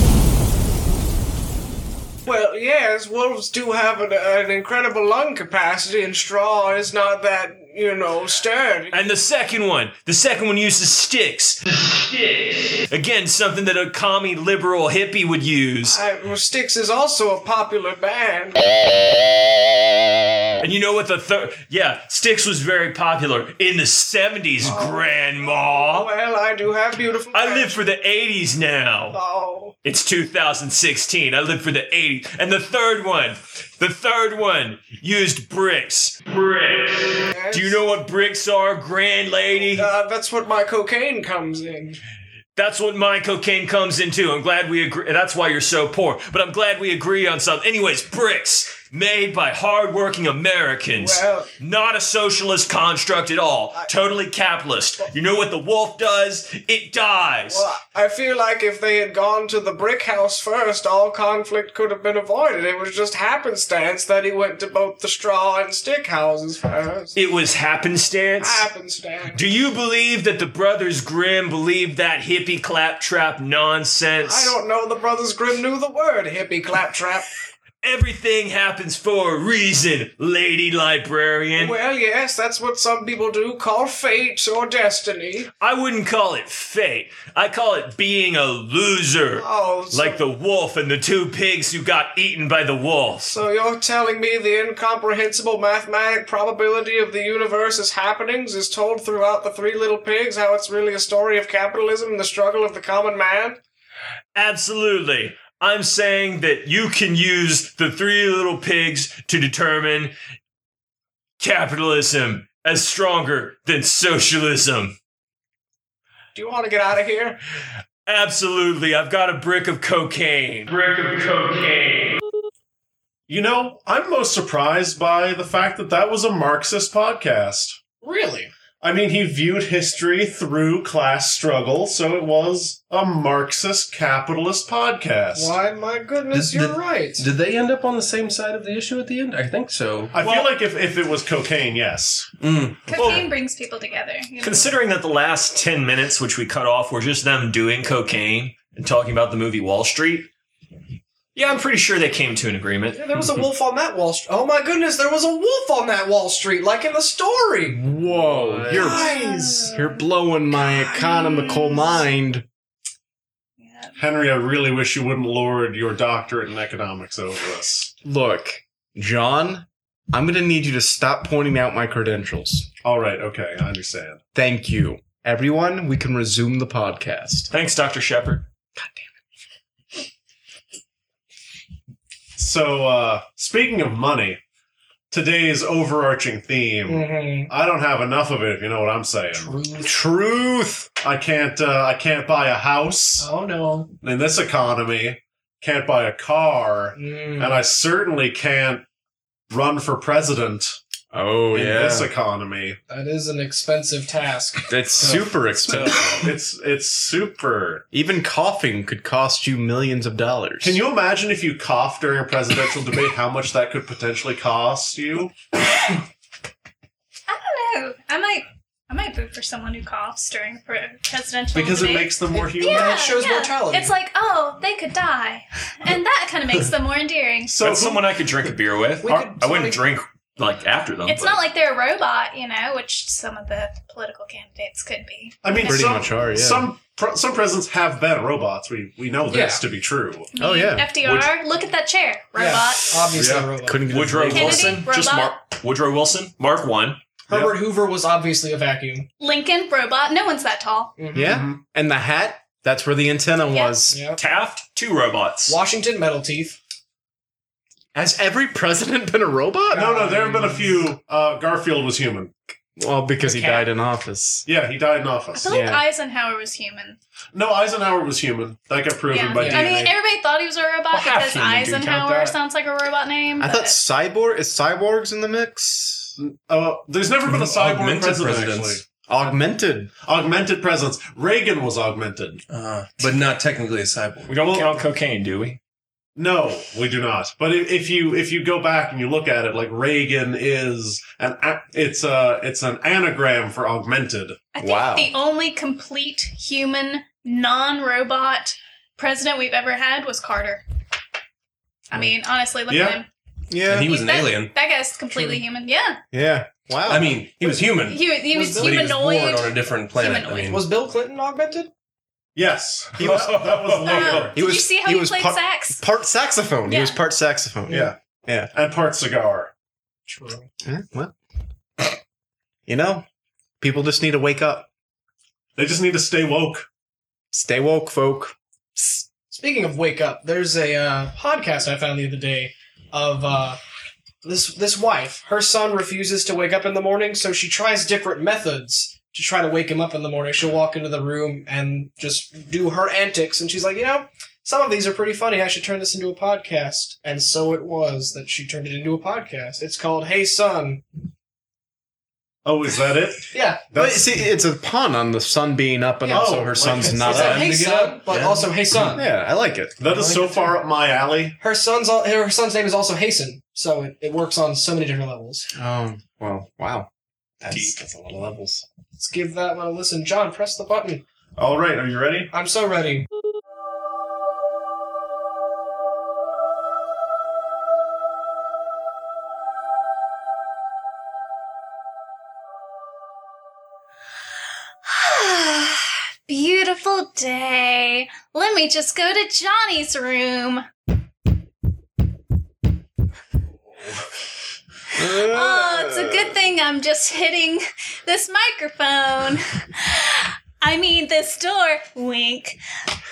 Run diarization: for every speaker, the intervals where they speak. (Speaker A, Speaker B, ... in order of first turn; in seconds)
Speaker A: 2.2-9.0, 15.8-18.7, 24.6-27.8, 29.1-29.7, 37.3-37.8, 39.7-42.0, 51.0-51.5, 57.5-67.2, 68.4-69.4, 74.2-77.3, 81.5-85.5, 89.4-90.2, 93.2-103.6, 116.3-117.4, 128.0-128.5, 135.3-137.3, 152.9-157.8, 158.7-159.8, 186.8-187.5, 189.3-189.9, 193.2-193.9, 196.9-197.6, 202.9-205.2, 222.3-223.9, 229.0-229.8, 239.3-239.6, 242.4-244.3, 247.3-249.1, 251.0-251.4, 253.9-254.2, 255.5-256.6, 259.7-260.9, 263.2-263.6, 269.4-269.9, 270.9-272.4, 308.3-308.9, 310.5-311.7, 320.1-320.5, 329.3-333.6, 334.2-350.9, 353.3-353.7, 356.0-359.1, 361.4-365.5, 368.9-371.0, 372.3-373.1
Speaker B: 8.9-16.0, 20.6-26.1, 27.3-29.2, 29.9-39.9, 42.6-57.7, 67.2-68.7, 69.3-74.6, 77.8-81.8, 85.6-93.3, 104.3-110.2, 111.4-115.0, 118.1-122.2, 140.2-140.5, 142.9-143.3, 144.4-150.3, 151.3-153.0, 177.5-178.5, 227.6-231.4, 243.9-247.0, 254.2-255.6, 284.3-285.6, 313.0-314.2, 367.5-367.8
Speaker C: 123.3-127.8, 128.8-135.6, 140.1-142.3, 164.0-167.9, 172.8-174.2, 182.4-184.4, 185.1-189.6, 191.0-193.3, 194.0-198.8, 199.5-200.8, 201.5-202.8, 205.9-207.8, 210.6-215.3, 221.5-223.2, 227.5-228.1, 235.4-240.3, 243.1-243.4, 247.3-247.6, 251.2-251.6, 259.7-262.3, 264.5-265.5, 267.3-270.0, 276.2-278.8, 280.1-282.4, 284.4-284.8, 286.2-294.4, 302.7-303.0, 312.4-314.4, 317.7-317.9, 318.5-319.5, 325.6-326.7, 352.4-354.3, 356.1-357.5, 359.8-361.4, 371.4-372.3
Speaker D: 136.3-140.2, 142.4-143.2, 158.1-158.9, 205.7-205.9, 277.3-278.8, 282.5-284.4, 303.7-304.5, 306.9-310.6, 356.9-358.5, 360.0-360.4
Speaker E: 142.9-144.7, 158.8-160.0, 161.0-162.0, 163.6-163.9, 217.3-227.6, 231.1-235.9, 240.3-243.0, 244.3-245.4, 249.2-251.0, 253.5-253.8, 265.3-267.0, 269.1-273.8, 294.5-300.6, 301.9-303.1, 303.7-306.0, 307.7-310.5, 313.8-315.8, 316.6-317.0, 384.9-390.7, 395.0-402.6
Speaker F: 157.7-162.4, 168.0-172.7, 174.3-177.5, 189.8-190.9, 201.1-202.1, 204.7-206.3, 207.9-210.8, 235.6-236.7, 240.4-241.1, 243.1-244.8, 251.1-254.0, 257.9-259.9, 262.8-264.5, 265.5-265.8, 273.4-276.2, 279.1-279.9, 294.6-295.1, 303.5-303.9, 306.1-307.3, 313.0-313.3, 314.3-318.5, 320.6-321.1, 322.7-323.1, 323.6-324.7, 327.3-329.1, 353.8-357.5, 358.9-359.8, 365.6-366.9, 367.4-368.6, 394.9-396.4